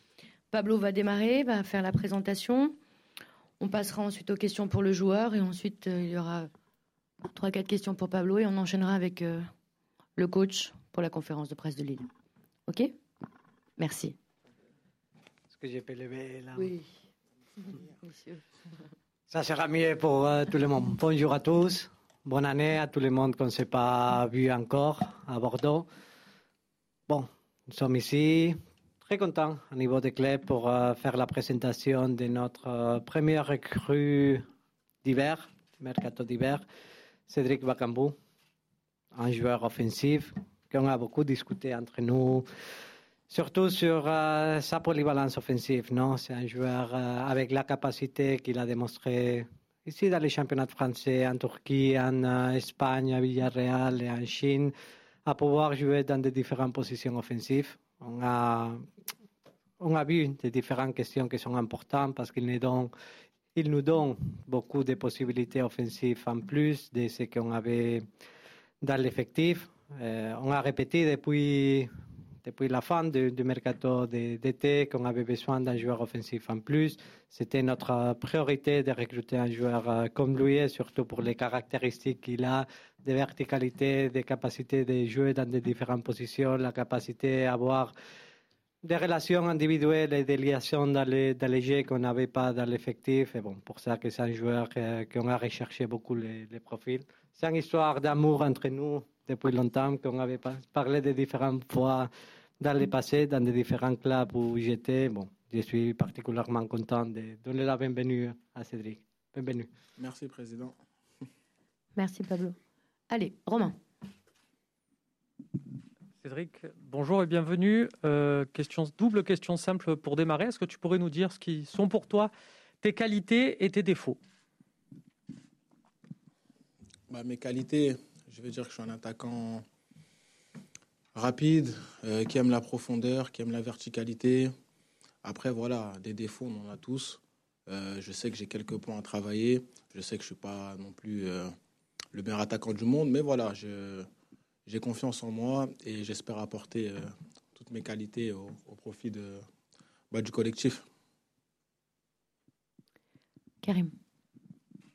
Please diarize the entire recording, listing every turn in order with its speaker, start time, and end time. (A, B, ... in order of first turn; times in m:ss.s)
0:00.5-0:02.7 A
0:03.6-0:06.5 A
0:07.2-0:09.4 A
0:10.2-0:12.0 A
0:13.8-0:14.1 A
0:15.5-0:16.7 B
0:16.6-0:16.8 A
0:17.8-0:18.4 A
0:19.3-0:25.9 B
0:27.1-0:34.4 B
0:35.0-0:36.6 B
0:37.3-0:38.1 B
0:39.1-0:42.4 B
0:43.3-0:54.7 B
0:55.2-0:58.8 B
0:59.8-1:02.9 B
1:03.6-1:08.0 B
1:08.8-1:11.9 B
1:12.4-1:27.9 B
1:28.8-1:42.1 B
1:42.6-1:49.7 B
1:50.0-1:50.7 C
1:52.0-1:52.6 A
1:53.1-1:53.8 A
1:56.2-2:02.3 D
2:02.8-2:04.2 D
2:07.1-2:09.6 C
2:11.1-2:14.5 C
2:15.2-2:21.5 C
2:22.1-2:24.0 C
2:24.7-2:29.4 C
2:30.1-2:30.8 C
2:33.6-2:33.9 A